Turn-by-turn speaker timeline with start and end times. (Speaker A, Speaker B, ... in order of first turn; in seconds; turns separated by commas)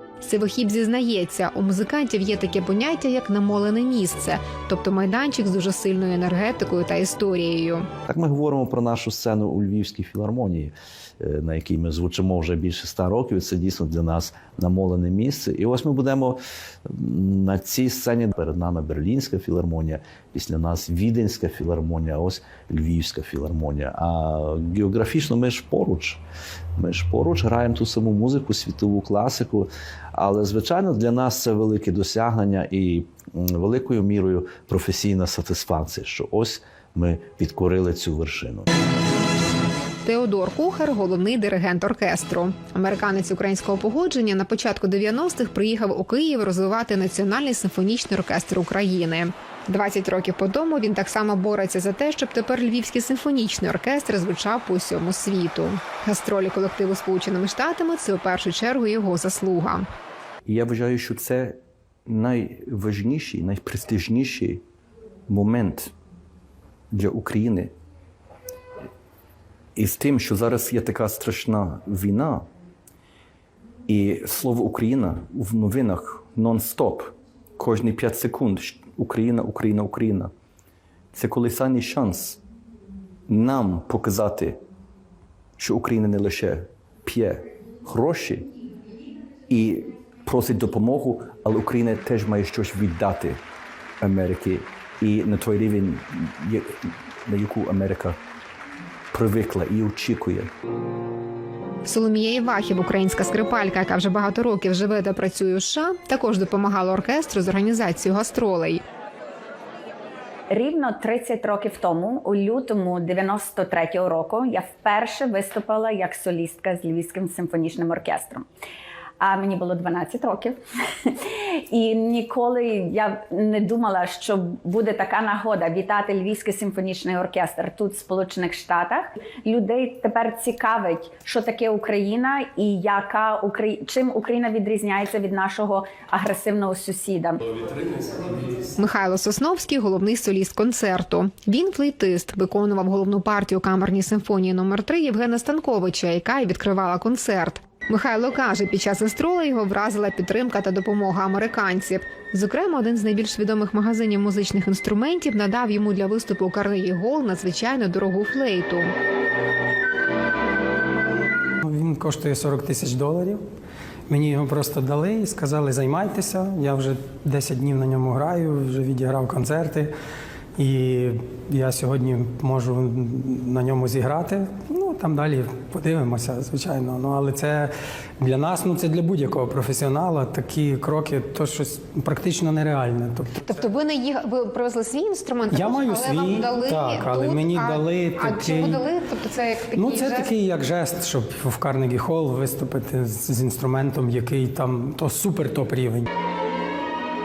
Speaker A: 0.2-7.9, Speaker B: 8.1-26.2, Speaker B: 26.8-38.7, Speaker A: 40.0-59.8, Speaker C: 60.5-64.6, Speaker C: 65.3-65.9, Speaker C: 66.9-67.7, Speaker C: 69.8-72.5, Speaker C: 73.9-80.3, Speaker C: 81.1-82.4, Speaker C: 83.3-84.6, Speaker C: 85.6-88.5, Speaker C: 89.5-93.4, Speaker C: 94.0-98.2, Speaker C: 99.1-100.5, Speaker A: 101.8-108.8, Speaker D: 110.5-118.5, Speaker D: 119.2-137.4, Speaker A: 138.8-158.9, Speaker E: 161.6-163.4, Speaker E: 164.1-169.9, Speaker E: 170.6-183.5, Speaker A: 183.4-190.3, Speaker E: 185.5-188.8, Speaker E: 189.7-196.1